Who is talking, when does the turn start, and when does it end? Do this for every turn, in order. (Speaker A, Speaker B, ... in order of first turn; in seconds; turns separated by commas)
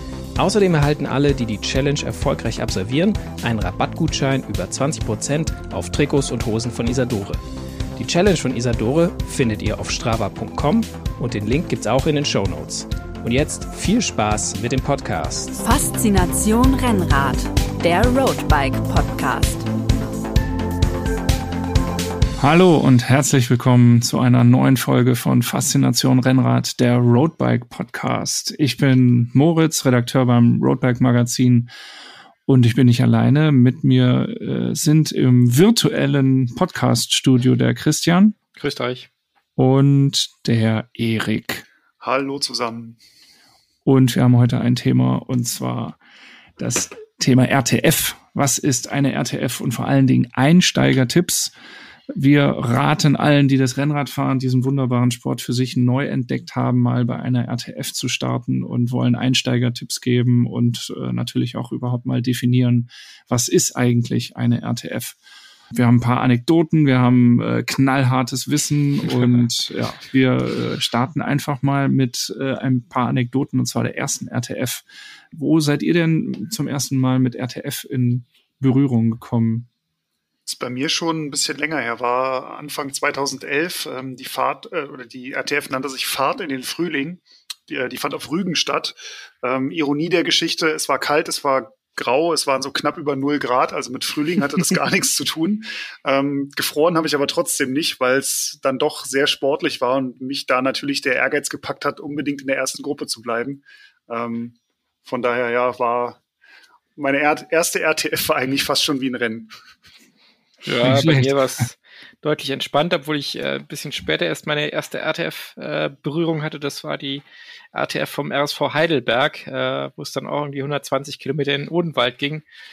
Speaker A: 0.3-7.4, Speaker A: 8.0-15.6, Speaker B: 15.6-19.6, Speaker C: 22.4-31.7, Speaker C: 32.5-38.3, Speaker D: 38.5-39.1, Speaker C: 39.6-41.6, Speaker E: 42.0-43.0, Speaker C: 43.8-46.0, Speaker C: 46.6-51.5, Speaker C: 52.1-65.2, Speaker C: 65.7-79.7, Speaker E: 80.5-106.2, Speaker E: 107.0-109.5, Speaker D: 110.6-117.2, Speaker C: 110.8-111.4, Speaker D: 117.7-122.4